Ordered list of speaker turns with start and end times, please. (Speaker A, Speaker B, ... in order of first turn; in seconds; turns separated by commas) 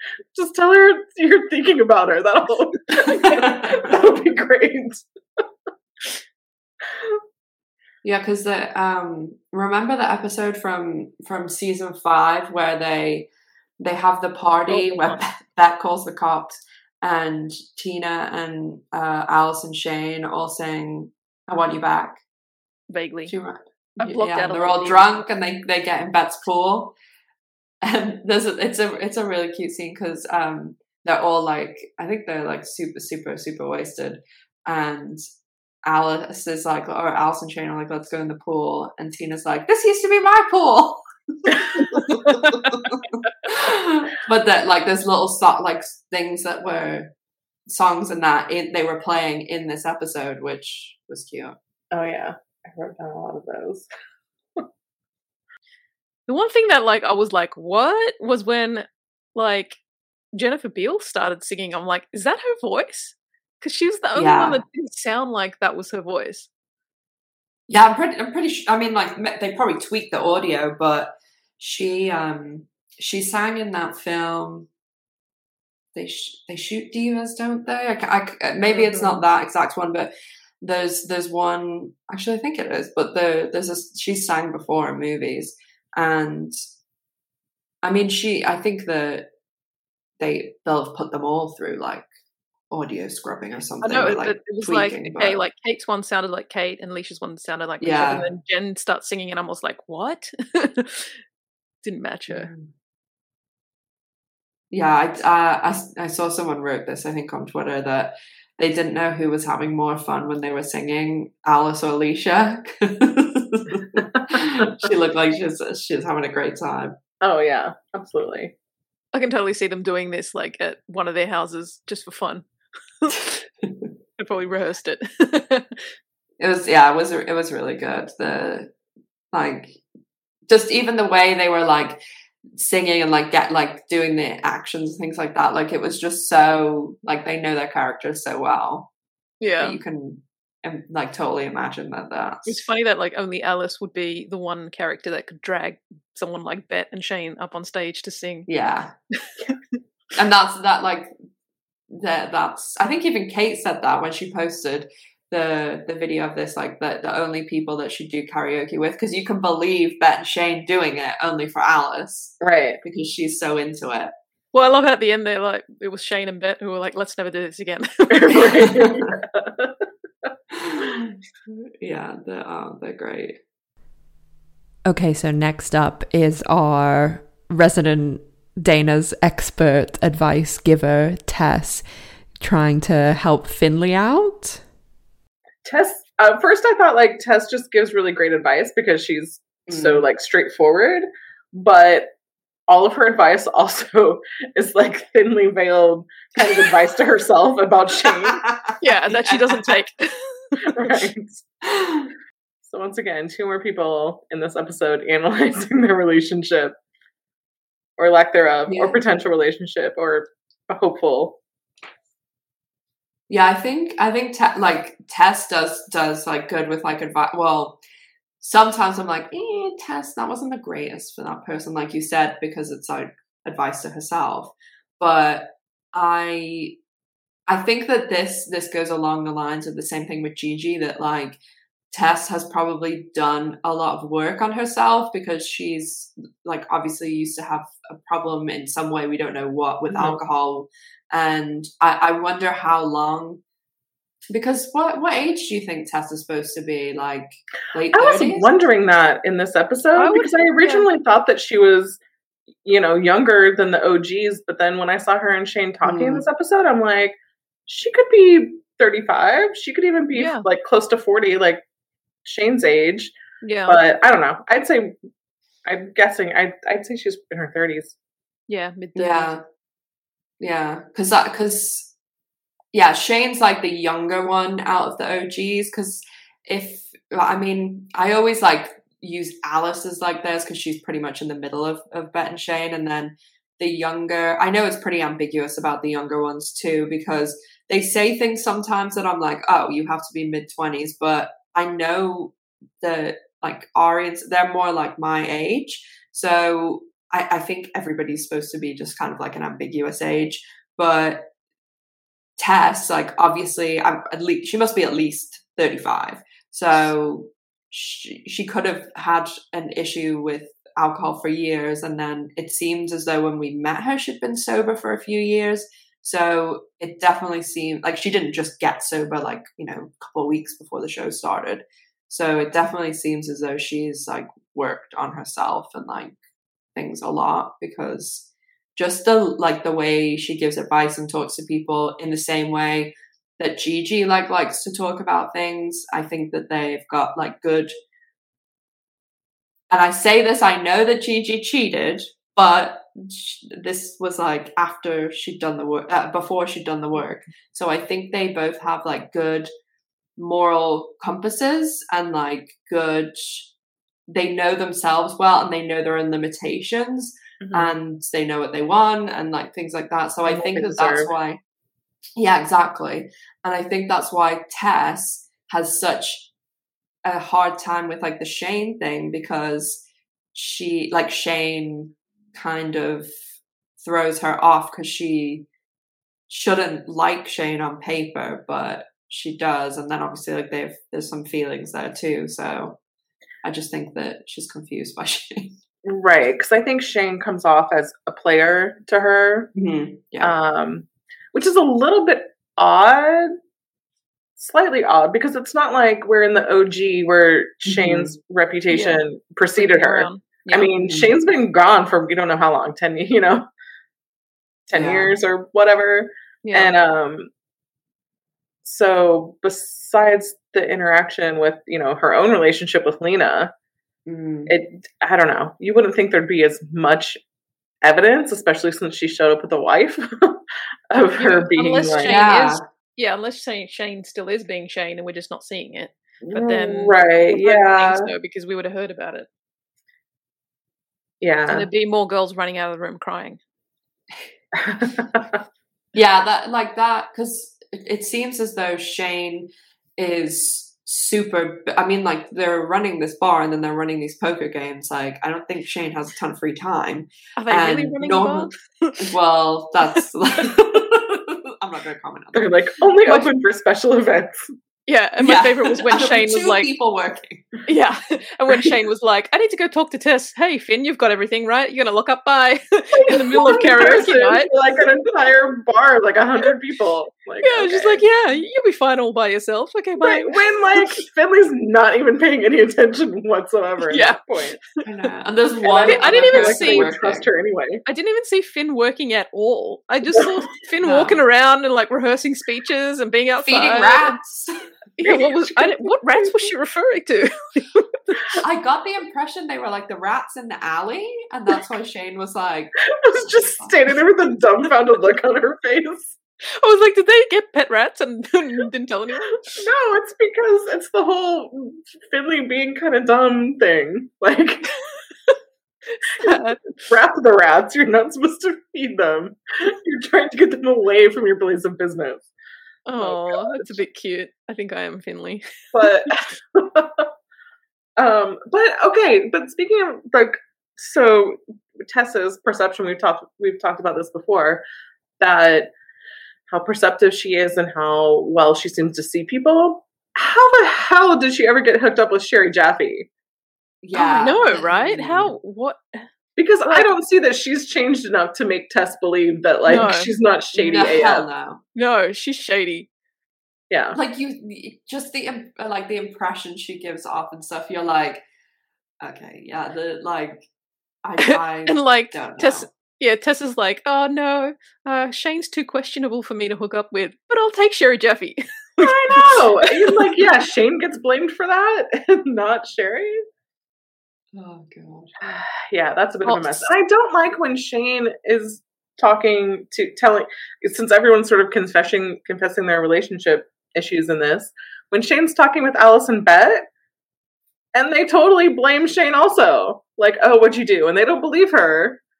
Speaker A: 0.3-5.0, Speaker B: 3.1-4.0, Speaker B: 8.0-22.2, Speaker C: 14.7-15.2, Speaker C: 22.9-23.3, Speaker B: 23.3-26.9, Speaker C: 24.0-25.1, Speaker B: 27.8-35.2, Speaker B: 35.8-47.1, Speaker C: 42.0-42.7, Speaker B: 47.7-51.5, Speaker A: 51.9-53.9, Speaker C: 56.3-59.8, Speaker C: 60.3-66.5, Speaker B: 64.1-64.6, Speaker B: 67.7-74.7, Speaker B: 75.9-86.5, Speaker A: 78.7-79.2, Speaker B: 87.8-89.3, Speaker B: 90.2-92.1, Speaker B: 92.7-95.4, Speaker C: 93.8-101.2, Speaker B: 97.8-98.2, Speaker C: 101.8-102.5, Speaker B: 102.3-102.7, Speaker B: 104.7-117.0, Speaker A: 117.2-118.5, Speaker C: 119.1-122.4, Speaker C: 123.0-123.3, Speaker B: 123.6-123.9, Speaker C: 124.2-125.8, Speaker B: 126.4-128.7, Speaker B: 129.3-129.8, Speaker B: 130.5-132.0, Speaker B: 132.5-138.9, Speaker C: 139.4-139.8, Speaker B: 139.6-142.6, Speaker C: 142.4-148.5, Speaker B: 148.5-148.9, Speaker C: 149.3-149.6, Speaker B: 150.2-151.1, Speaker B: 151.9-164.1, Speaker A: 162.4-162.8, Speaker C: 164.5-168.5, Speaker A: 168.1-169.8, Speaker B: 168.6-169.1, Speaker B: 170.5-173.4, Speaker D: 174.8-184.7, Speaker A: 185.6-192.1, Speaker B: 189.7-190.1, Speaker A: 192.7-198.4, Speaker B: 198.3-199.7, Speaker C: 198.8-200.9, Speaker A: 200.7-201.4, Speaker B: 201.7-202.1, Speaker A: 202.6-206.8, Speaker A: 208.0-211.4, Speaker B: 208.7-209.0, Speaker B: 213.3-217.8, Speaker B: 218.4-226.8, Speaker B: 227.5-231.4, Speaker B: 231.9-243.4, Speaker A: 239.9-240.2, Speaker B: 244.3-248.5, Speaker A: 247.9-252.0, Speaker C: 250.0-250.9, Speaker A: 252.6-261.6, Speaker B: 255.8-256.2, Speaker C: 260.1-260.4, Speaker A: 262.2-263.1, Speaker C: 263.4-263.8, Speaker A: 263.7-264.9, Speaker A: 265.6-267.9, Speaker C: 268.5-269.3, Speaker B: 268.9-269.4, Speaker B: 270.4-271.9, Speaker B: 272.7-301.3, Speaker B: 302.4-326.2, Speaker B: 326.7-337.7, Speaker B: 339.7-349.5, Speaker B: 350.2-353.5, Speaker B: 354.1-361.4, Speaker A: 357.4-357.7, Speaker A: 360.2-361.1, Speaker B: 362.1-366.3, Speaker B: 367.0-369.8, Speaker B: 370.3-373.1, Speaker B: 373.8-375.4, Speaker B: 376.3-382.8, Speaker B: 383.4-385.6, Speaker A: 385.8-389.5, Speaker B: 389.5-390.3, Speaker A: 390.2-393.3, Speaker A: 394.4-403.5, Speaker B: 397.7-398.1, Speaker C: 398.7-399.0, Speaker C: 399.6-400.7, Speaker B: 400.8-401.1, Speaker A: 404.7-407.3, Speaker B: 404.7-405.1, Speaker C: 406.4-406.7, Speaker A: 408.6-413.5, Speaker B: 414.1-414.5, Speaker A: 414.5-417.2, Speaker A: 417.8-422.2, Speaker C: 421.1-429.3, Speaker B: 422.0-422.6, Speaker A: 426.2-428.1, Speaker A: 431.2-431.7, Speaker C: 431.5-433.4, Speaker A: 434.6-435.3, Speaker B: 435.9-452.5, Speaker C: 447.4-449.0, Speaker A: 452.3-454.5, Speaker C: 453.0-453.3, Speaker C: 454.9-456.7, Speaker B: 455.2-457.5, Speaker C: 457.7-464.5, Speaker A: 463.0-468.0, Speaker C: 467.4-471.0, Speaker A: 470.0-474.6, Speaker C: 473.9-474.2, Speaker B: 474.8-477.3, Speaker A: 475.7-477.8, Speaker C: 475.8-476.9, Speaker C: 477.9-484.2, Speaker B: 480.8-481.2, Speaker B: 483.4-484.6, Speaker C: 485.0-488.2, Speaker A: 485.0-486.5, Speaker B: 488.4-493.9, Speaker A: 492.9-496.2, Speaker C: 496.6-499.4, Speaker A: 499.5-504.7, Speaker C: 505.9-506.7, Speaker A: 506.1-512.3, Speaker C: 512.9-516.1, Speaker A: 513.0-513.8, Speaker A: 515.7-517.1, Speaker A: 518.0-524.6, Speaker A: 525.2-525.7, Speaker A: 526.5-533.1, Speaker B: 533.8-535.3, Speaker C: 533.9-536.0, Speaker A: 536.4-541.3, Speaker C: 539.7-540.1, Speaker B: 540.5-541.6, Speaker C: 541.7-542.9, Speaker A: 543.7-544.0, Speaker B: 543.9-548.2, Speaker B: 549.0-550.5, Speaker B: 551.0-552.7, Speaker C: 551.2-560.0, Speaker A: 558.8-563.2, Speaker B: 564.3-565.1, Speaker A: 565.2-576.6, Speaker C: 566.2-566.7, Speaker A: 577.7-582.0